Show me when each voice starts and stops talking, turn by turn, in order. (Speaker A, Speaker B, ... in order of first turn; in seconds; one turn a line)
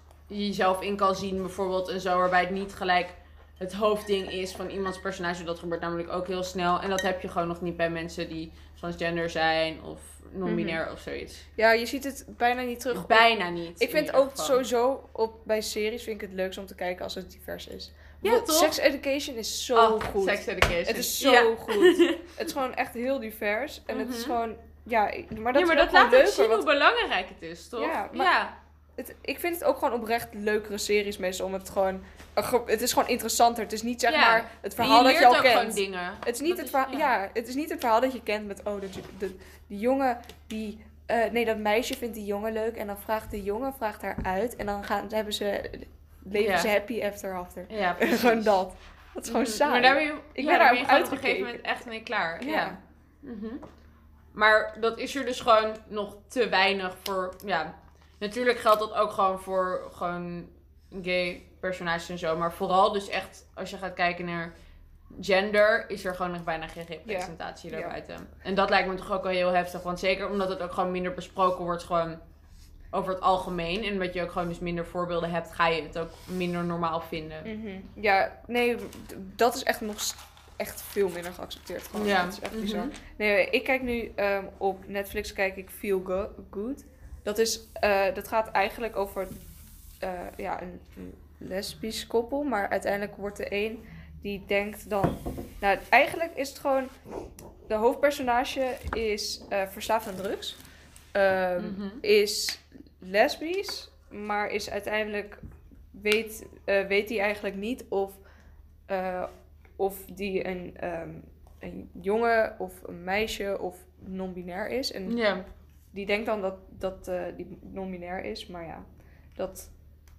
Speaker A: 0.3-11.5
Speaker B: 10.5-10.8
Speaker B: 11.6-26.7
Speaker A: 12.9-14.6
Speaker A: 18.2-18.8
Speaker A: 19.8-22.2
Speaker A: 23.9-24.4
Speaker A: 25.5-28.6
Speaker B: 27.8-28.3
Speaker B: 29.0-51.7
Speaker A: 34.1-37.1
Speaker A: 46.4-46.7
Speaker A: 47.7-48.6
Speaker A: 49.3-53.6
Speaker B: 52.4-52.8
Speaker A: 54.3-64.5
Speaker A: 65.2-72.2
Speaker B: 67.1-68.0
Speaker A: 72.9-77.5
Speaker B: 77.5-89.3
Speaker A: 82.0-83.0
Speaker B: 90.0-96.9
Speaker B: 97.7-100.6
Speaker B: 101.1-105.4
Speaker A: 101.6-102.0
Speaker B: 105.9-108.2
Speaker B: 108.9-115.2
Speaker A: 115.1-115.5
Speaker B: 115.9-119.7